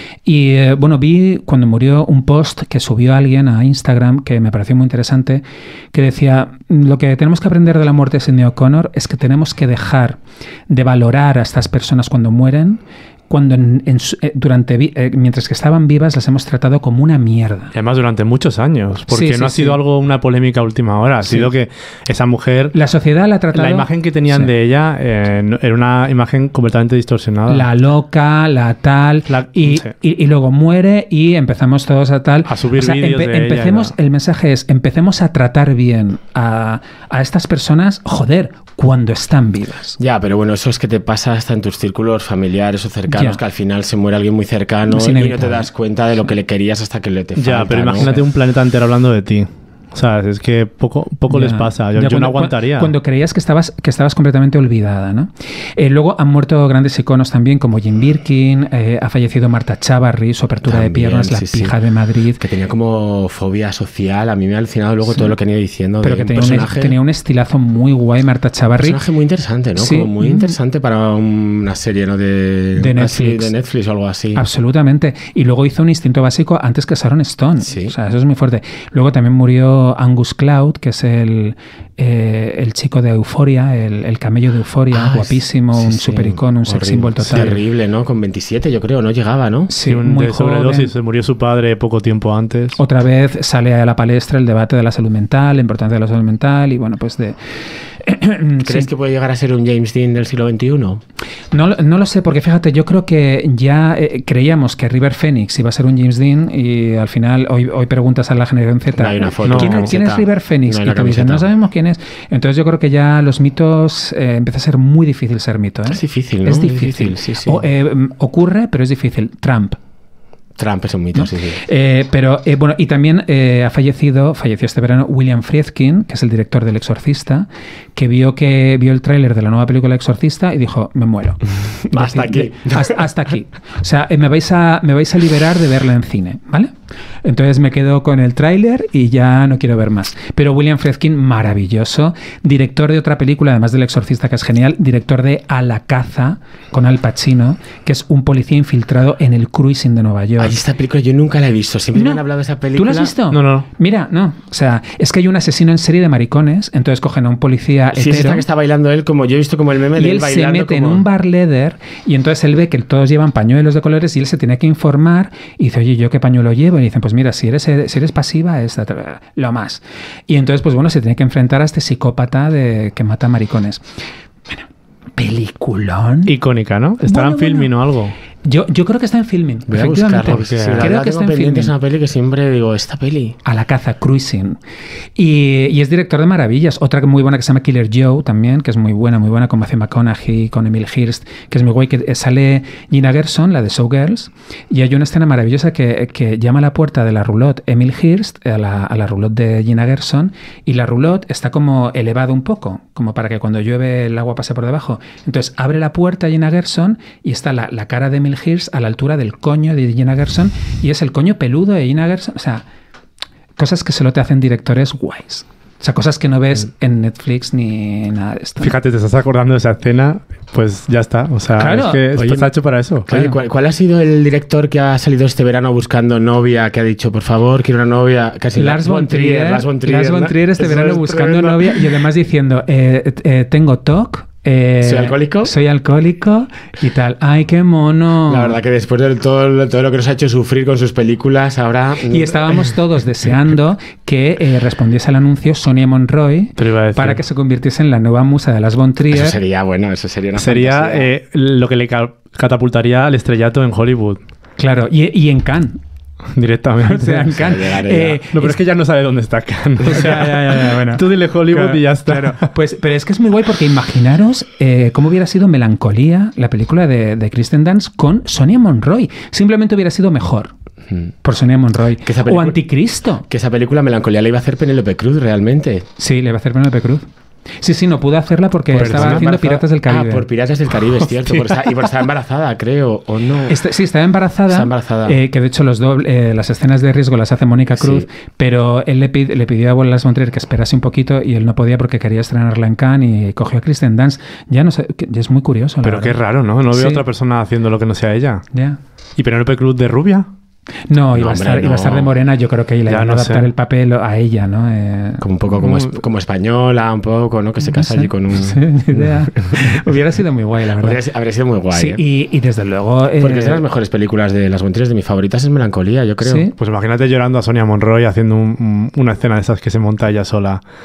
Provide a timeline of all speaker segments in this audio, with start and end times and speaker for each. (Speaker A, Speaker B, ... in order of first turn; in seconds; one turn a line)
Speaker A: 0.2-17.7
Speaker B: 17.7-22.7
Speaker A: 19.1-19.8
Speaker A: 21.2-21.5
Speaker A: 22.7-24.5
Speaker B: 23.5-27.7
Speaker A: 27.5-40.0
Speaker B: 29.3-29.9
Speaker B: 32.5-33.9
Speaker C: 40.0-48.1
Speaker A: 43.1-43.4
Speaker A: 44.9-45.7
Speaker B: 47.4-52.9
Speaker A: 48.0-48.2
Speaker A: 51.3-62.4
Speaker C: 60.6-61.8
Speaker C: 62.4-67.0
Speaker A: 65.1-65.3
Speaker A: 66.0-69.0
Speaker C: 68.8-74.4
Speaker A: 69.8-70.6
Speaker A: 72.7-73.5
Speaker A: 74.3-87.6
Speaker C: 77.6-77.9
Speaker C: 84.9-89.7
Speaker A: 89.7-90.9
Speaker B: 89.8-92.8
Speaker A: 92.8-98.9
Speaker C: 98.6-101.0
Speaker A: 101.5-119.8
Speaker C: 108.9-111.5
Speaker B: 109.5-109.9
Speaker C: 115.9-117.6
Speaker C: 120.6-121.6
Speaker A: 121.1-136.7
Speaker C: 131.8-133.0
Speaker A: 137.2-150.6
Speaker C: 150.4-153.1
Speaker A: 151.9-152.2
Speaker A: 152.7-158.4
Speaker B: 153.3-153.7
Speaker C: 157.9-161.0
Speaker A: 159.9-173.8
Speaker A: 175.2-176.3
Speaker B: 176.3-178.1
Speaker A: 177.0-177.7
Speaker A: 178.4-181.7
Speaker C: 179.7-183.3
Speaker B: 180.4-180.9
Speaker A: 183.4-184.6
Speaker A: 185.2-212.6
Speaker A: 213.6-218.7
Speaker B: 218.6-223.1
Speaker A: 221.6-222.1
Speaker C: 222.1-222.5
Speaker C: 223.0-231.8
Speaker A: 223.1-223.4
Speaker A: 228.6-238.6
Speaker C: 234.8-235.5
Speaker C: 238.3-242.7
Speaker A: 242.1-249.4
Speaker B: 246.6-247.2
Speaker C: 249.1-251.1
Speaker B: 250.4-254.2
Speaker A: 254.6-255.8
Speaker B: 256.3-257.3
Speaker A: 256.8-258.6
Speaker C: 257.3-258.2
Speaker B: 258.3-262.5
Speaker A: 259.8-270.5
Speaker A: 271.2-273.2
Speaker C: 272.0-272.6
Speaker C: 273.3-275.9
Speaker A: 276.0-277.0
Speaker A: 277.6-280.3
Speaker C: 278.7-283.6
Speaker B: 278.7-279.2
Speaker A: 281.1-281.5
Speaker A: 283.5-296.2
Speaker C: 284.5-285.2
Speaker C: 287.8-288.1
Speaker B: 295.8-298.4
Speaker A: 296.7-297.0
Speaker A: 298.5-298.8
Speaker B: 299.2-300.3
Speaker A: 300.9-305.2
Speaker C: 301.1-302.1
Speaker B: 302.9-303.5
Speaker C: 305.2-309.8
Speaker B: 305.6-306.0
Speaker A: 307.6-311.0
Speaker C: 310.8-312.0
Speaker A: 311.7-313.6
Speaker C: 313.2-316.5
Speaker A: 316.2-316.5
Speaker B: 316.6-320.6